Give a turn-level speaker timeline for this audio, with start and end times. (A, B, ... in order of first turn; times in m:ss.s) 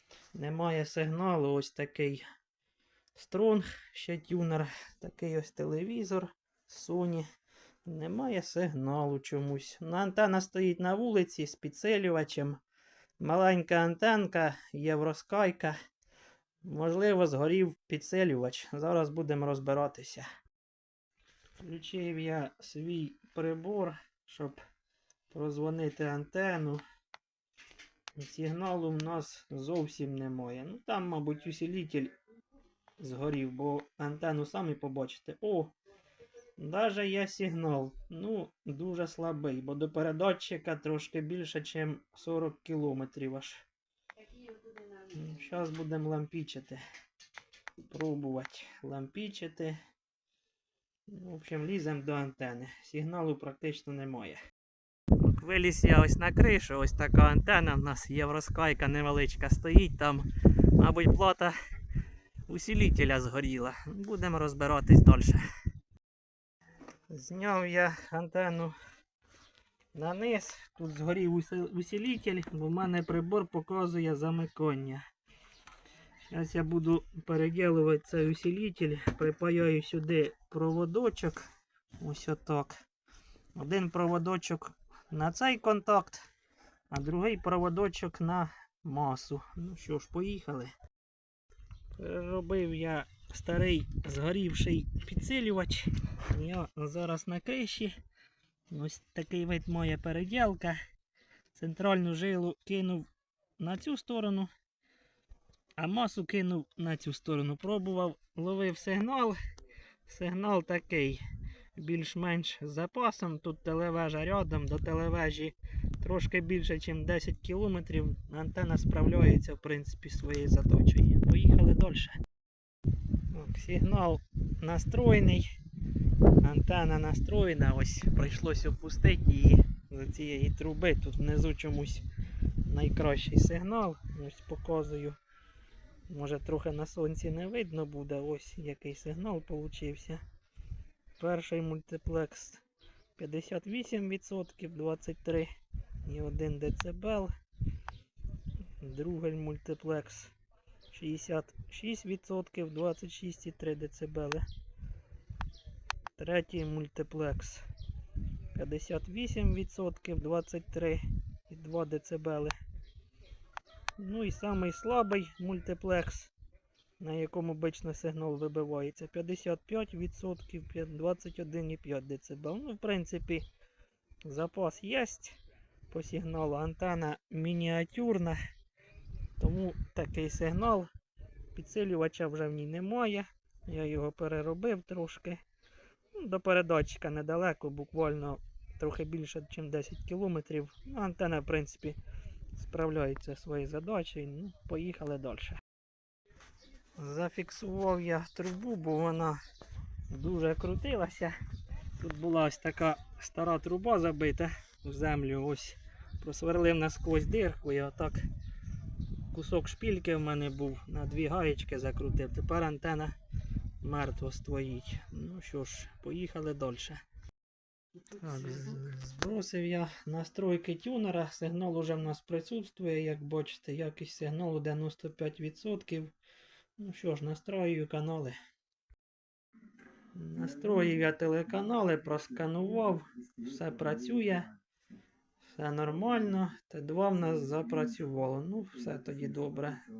0:00.3-0:02.2 A
0:03.1-0:07.2 A
0:07.8-0:12.6 A
0:13.2-0:15.7 A
0:16.6-0:20.2 A
0:21.6-0:24.6 A
0:25.3-0:26.8 A
0:28.2-0:32.1 A
0:33.0-0:35.7 A
0:36.6-0:43.6 A
0:44.9-0:46.8 A
0:47.9-0:49.8 A
0:51.1-0:54.4 A
0:55.2-1:01.6 A
1:02.5-1:05.4 A
1:07.1-1:08.8 A
1:09.9-1:15.0 A
1:16.3-1:21.4 A
1:22.0-1:22.8 A
1:23.5-1:26.2 A
1:26.9-1:30.7 A
1:32.0-1:38.0 A
1:38.7-1:40.8 A
1:41.5-1:43.1 A
1:43.6-1:44.5 A
1:45.8-1:49.4 A
1:50.0-1:51.2 A
1:51.7-2:02.2 A
2:03.3-2:05.4 A
2:06.4-2:12.0 A
2:12.6-2:15.2 A
2:16.1-2:20.2 A
2:21.2-2:22.6 A
2:23.2-2:25.5 A
2:26.0-2:27.3 A
2:28.8-2:30.3 A
2:30.9-2:34.4 A
2:36.2-2:37.6 A
2:38.5-2:42.6 A
2:44.0-2:46.3 A
2:47.0-2:53.4 A
2:54.2-2:55.4 A
2:55.9-2:58.4 A
2:59.4-3:00.9 A
3:01.5-3:05.4 A
3:06.1-3:12.0 A
3:12.6-3:15.6 A
3:17.0-3:19.4 A
3:20.1-3:21.4 A
3:22.0-3:28.2 A
3:29.3-3:33.1 A
3:33.8-3:37.0 A
3:38.1-3:46.1 A
3:46.8-3:48.4 A
3:50.1-3:54.5 A
3:55.5-3:59.8 A